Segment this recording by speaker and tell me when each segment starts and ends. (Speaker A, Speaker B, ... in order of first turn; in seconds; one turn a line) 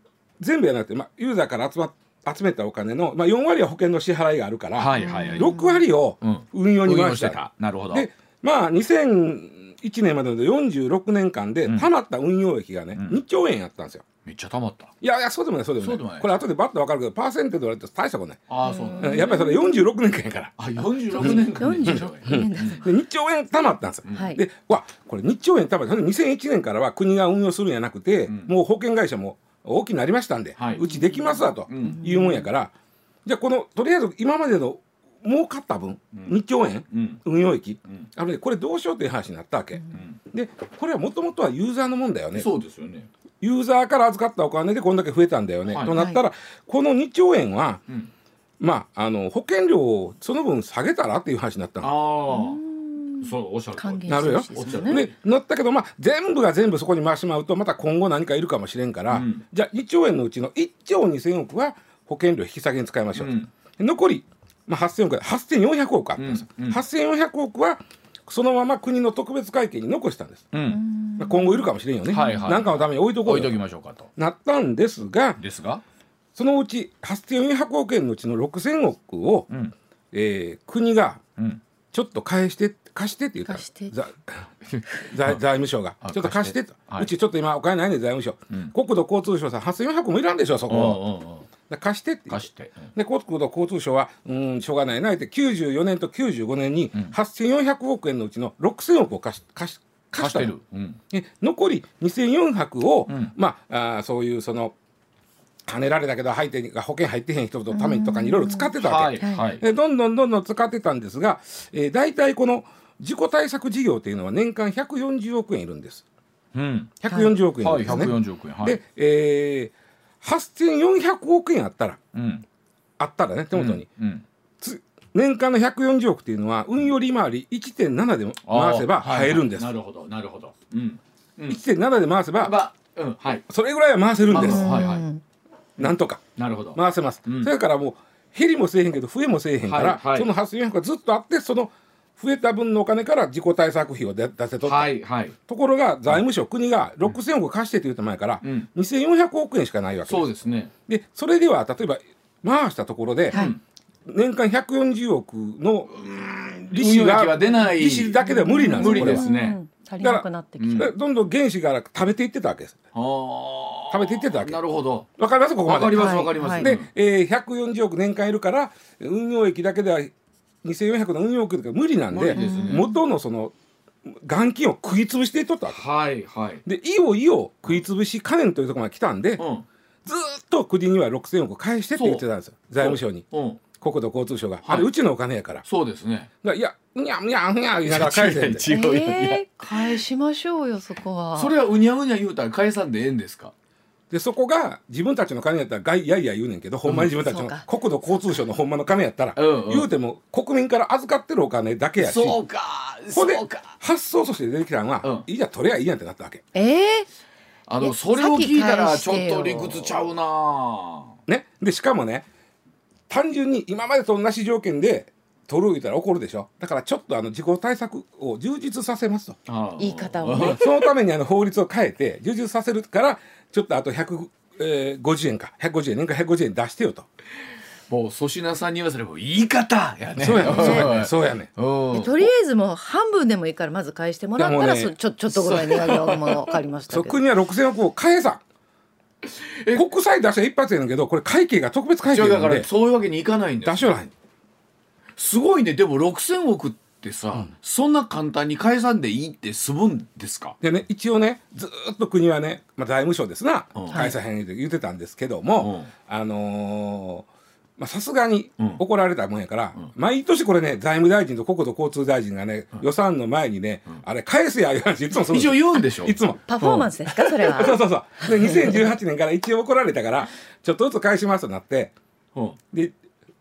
Speaker A: 0.4-14.1
Speaker B: 4.8-5.5
Speaker C: 5.0-5.8
Speaker B: 6.2-8.1
Speaker B: 12.9-13.2
Speaker B: 14.2-14.9
Speaker A: 15.0-18.4
Speaker B: 15.8-16.4
Speaker B: 18.5-19.3
Speaker C: 18.6-19.9
Speaker A: 19.0-20.6
Speaker B: 20.6-22.8
Speaker C: 21.1-22.9
Speaker A: 21.2-32.7
Speaker B: 24.1-24.3
Speaker C: 24.1-24.4
Speaker B: 28.3-28.5
Speaker B: 30.6-30.9
Speaker C: 30.8-32.5
Speaker B: 31.7-32.0
Speaker A: 33.2-42.5
Speaker B: 36.1-36.4
Speaker B: 36.9-37.2
Speaker B: 39.9-40.2
Speaker B: 42.4-43.1
Speaker A: 43.4-47.8
Speaker B: 45.7-46.0
Speaker C: 45.9-46.2
Speaker A: 48.6-51.9
Speaker B: 51.8-52.6
Speaker C: 52.3-55.0
Speaker B: 53.2-55.1
Speaker A: 54.1-70.5
Speaker B: 59.1-59.4
Speaker B: 63.2-63.5
Speaker B: 66.2-66.8
Speaker B: 70.5-70.8
Speaker C: 70.7-72.6
Speaker A: 71.2-73.6
Speaker B: 72.1-74.1
Speaker A: 74.2-75.4
Speaker B: 75.4-75.8
Speaker A: 76.4-79.5
Speaker A: 80.1-81.2
Speaker A: 81.9-84.4
Speaker C: 83.5-83.9
Speaker B: 84.7-85.4
Speaker A: 85.1-91.0
Speaker B: 86.0-87.1
Speaker B: 90.7-91.5
Speaker A: 91.7-100.5
Speaker B: 92.3-92.9
Speaker B: 100.2-101.0
Speaker A: 101.1-104.8
Speaker B: 103.1-103.3
Speaker A: 105.7-116.0
Speaker C: 107.7-109.5
Speaker B: 108.8-109.7
Speaker B: 116.5-116.9
Speaker A: 117.0-122.0
Speaker B: 117.6-118.8
Speaker B: 122.1-122.5
Speaker A: 123.0-123.9
Speaker B: 123.5-124.2
Speaker A: 124.6-129.7
Speaker B: 128.5-131.6
Speaker A: 131.5-132.6
Speaker B: 132.4-133.4
Speaker A: 133.5-134.8
Speaker B: 134.3-135.1
Speaker C: 134.4-135.2
Speaker A: 135.8-136.2
Speaker B: 135.8-137.5
Speaker A: 136.7-150.3
Speaker B: 139.6-140.3
Speaker B: 144.6-145.4
Speaker B: 148.4-148.7
Speaker B: 150.1-150.7
Speaker A: 150.9-153.4
Speaker B: 153.3-153.6
Speaker A: 154.1-155.9
Speaker B: 155.9-159.6
Speaker A: 156.7-159.3
Speaker C: 157.4-160.9
Speaker A: 160.0-162.8
Speaker B: 160.6-160.9
Speaker B: 162.9-165.1
Speaker A: 163.9-170.1
Speaker B: 165.6-166.9
Speaker C: 165.9-166.7
Speaker A: 170.6-173.5
Speaker B: 172.1-172.9
Speaker C: 172.3-173.0
Speaker A: 174.1-175.8
Speaker B: 175.7-176.6
Speaker A: 176.7-179.4
Speaker B: 179.4-179.7
Speaker A: 180.1-183.3
Speaker B: 182.0-182.2
Speaker B: 182.8-183.6
Speaker A: 183.8-185.6
Speaker B: 184.6-184.9
Speaker B: 185.7-186.3
Speaker A: 186.4-188.7
Speaker B: 187.9-190.0
Speaker C: 188.7-191.6
Speaker B: 191.3-193.5
Speaker A: 194.1-202.4
Speaker C: 197.2-198.4
Speaker B: 199.4-199.9
Speaker B: 202.0-203.8
Speaker A: 203.1-206.4
Speaker C: 206.6-207.1
Speaker B: 207.7-211.2
Speaker C: 207.8-209.9
Speaker A: 211.3-212.3
Speaker A: 213.1-219.4
Speaker B: 219.5-220.9
Speaker C: 219.8-220.6
Speaker A: 220.3-227.1
Speaker B: 227.9-232.3
Speaker A: 230.2-231.5
Speaker C: 230.4-231.0
Speaker C: 231.9-237.2
Speaker A: 234.4-234.9
Speaker B: 235.3-236.6
Speaker A: 236.9-238.4
Speaker B: 239.2-239.8
Speaker A: 239.7-242.7
Speaker B: 242.1-243.9
Speaker A: 243.6-244.1
Speaker B: 245.2-250.6
Speaker A: 250.6-257.3
Speaker B: 253.8-254.1
Speaker B: 255.6-255.9
Speaker A: 257.8-266.5
Speaker B: 265.1-266.9
Speaker C: 266.5-268.9
Speaker A: 267.1-271.9